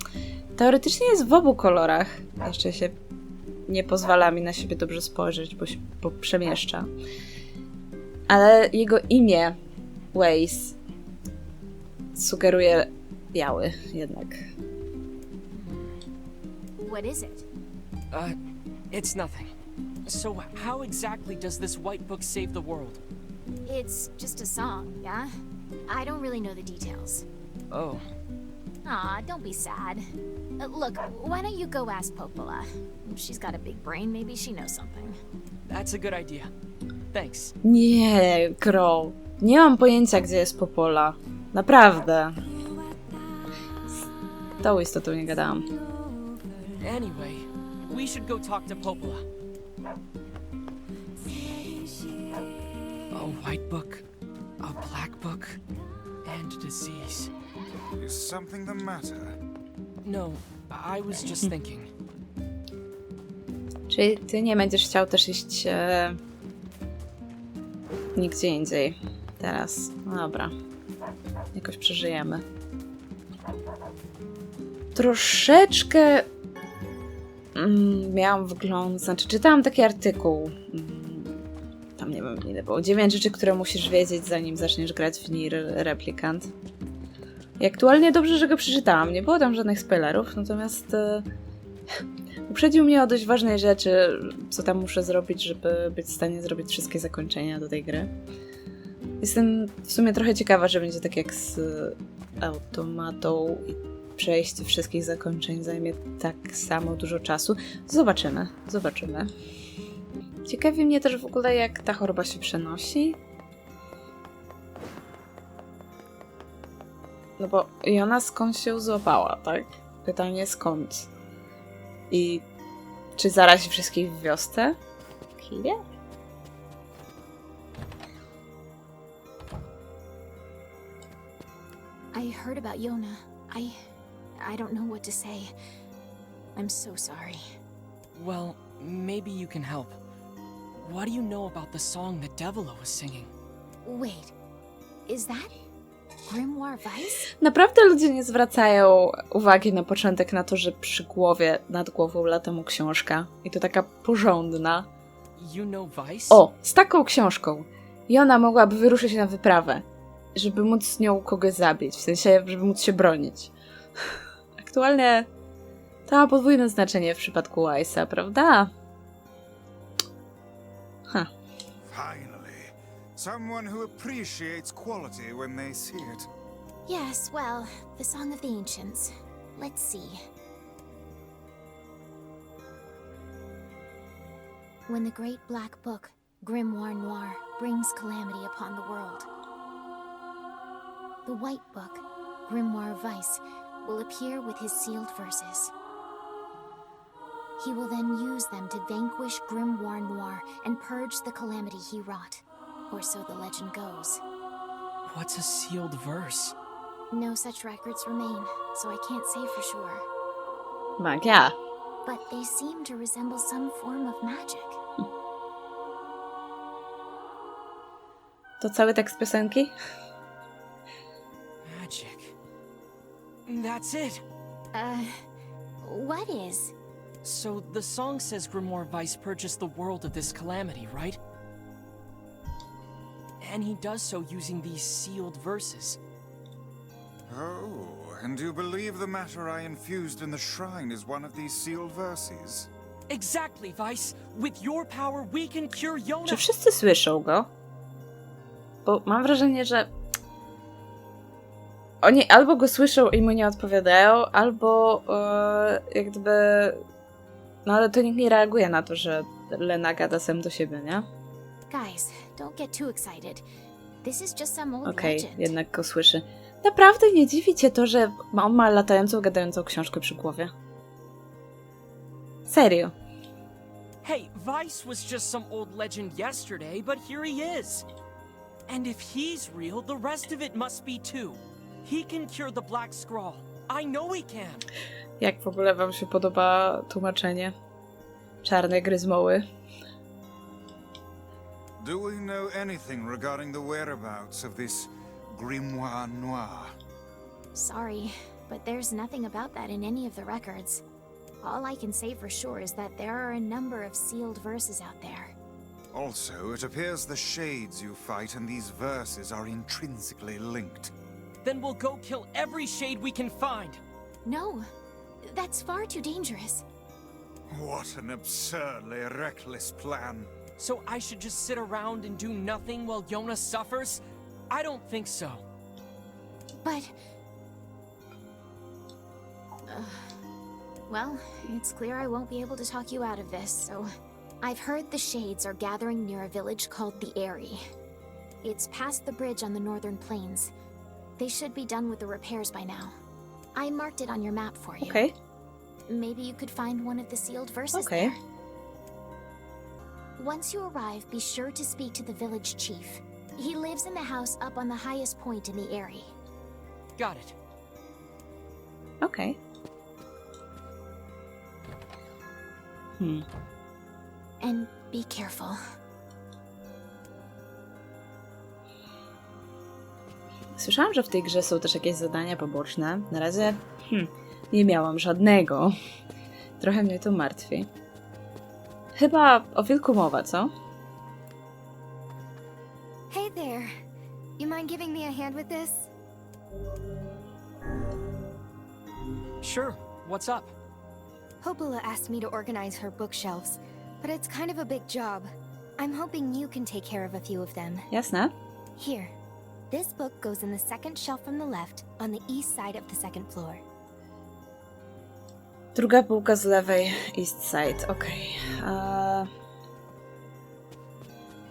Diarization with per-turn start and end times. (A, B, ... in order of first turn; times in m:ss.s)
0:00.6-0:03.0 A
0:03.7-0:06.9 A
0:08.3-0:09.6 A
0:10.1-0:10.8 A
0:12.1-0:14.4 A
0:15.6-0:15.9 B
0:16.8-0:17.4 B
0:18.1-0:18.4 C
0:18.9-0:19.5 C
0:20.0-0:23.0 C
0:23.6-0:25.3 B
0:25.9-0:27.2 B
0:27.7-0:28.0 C
0:28.8-0:30.0 B
0:30.6-0:35.2 B
0:35.7-0:36.5 C
0:37.1-0:37.5 C
0:37.6-0:42.4 A
0:44.6-0:45.7 A
0:46.8-0:49.2 C
0:53.1-0:54.0 C
0:54.6-0:55.6 C
0:56.2-0:57.3 C
0:58.0-0:59.4 D
1:00.0-1:01.9 C
1:03.9-1:06.2 A
1:08.2-1:10.5 A
1:11.5-1:12.4 A
1:14.9-1:16.3 A
1:17.5-1:21.4 A
1:22.0-1:26.5 A
1:27.6-1:31.3 A
1:32.5-1:38.1 A
1:39.2-1:49.3 A
1:50.5-1:53.2 A
1:57.4-2:01.1 A
2:02.1-2:02.4 A
2:03.2-2:04.8 A
2:05.4-2:05.8 A
2:12.1-2:13.9 B
2:14.4-2:15.5 B
2:16.5-2:17.4 B
2:18.1-2:20.0 C
2:20.8-2:23.3 C
2:23.8-2:24.3 B
2:25.1-2:25.5 B
2:26.3-2:27.3 B
2:27.4-2:34.9 A
2:35.4-2:36.4 C
2:36.3-2:39.8 A
2:40.3-2:43.5 A
2:44.6-2:45.3 A
2:46.1-2:48.7 A
2:51.8-2:56.3 D
2:56.9-3:00.2 B
3:04.9-3:09.3 B
3:11.2-3:15.7 B
3:17.6-3:24.2 B
3:25.1-3:26.5 C
3:27.1-3:30.0 B
3:31.0-3:31.5 A
3:32.0-3:34.8 B
3:38.6-3:39.7 A
3:41.6-3:42.3 C
3:43.4-3:44.2 C
3:44.7-3:45.2 B
3:45.8-3:46.7 B
3:47.2-3:51.2 C
3:53.4-3:56.0 C
3:57.3-4:02.7 D
4:03.1-4:06.4 C
4:06.3-4:07.5 A
4:08.8-4:09.9 A
4:12.0-4:16.8 A
4:17.6-4:21.1 A
4:21.7-4:23.4 B
4:24.0-4:25.5 B
4:24.8-4:30.5 A
4:32.5-4:32.9 A
4:34.0-4:37.8 C
4:38.7-4:44.7 C
4:45.2-4:47.5 A
4:48.4-4:49.4 A
4:51.8-4:56.8 D
4:57.5-5:00.8 B
5:01.4-5:05.3 B
5:05.9-5:10.9 D
5:11.4-5:13.8 C
5:14.2-5:14.7 B
5:15.2-5:16.6 B
5:17.5-5:20.3 D
5:20.6-5:25.4 C
5:26.6-5:26.9 B
5:29.6-5:30.2 B
5:30.9-5:33.9 B
5:34.4-5:37.6 B
5:38.4-5:40.5 B
5:41.2-5:43.0 B
5:43.5-5:45.0 B
5:44.8-5:45.1 A
5:45.9-5:48.2 B
5:47.7-5:48.1 A
5:50.2-5:56.1 B
5:57.0-5:57.3 C
5:59.0-5:59.4 A
6:03.0-6:03.2 A
6:04.4-6:05.6 B
6:10.6-6:15.8 A
6:16.6-6:17.7 A
6:19.0-6:20.5 A
6:23.1-6:23.7 E
6:24.4-6:25.9 E
6:29.4-6:30.5 C
6:31.4-6:37.9 E
6:37.9-6:38.3 A
6:38.8-6:39.1 E
6:39.7-6:43.6 E
6:45.7-6:49.3 A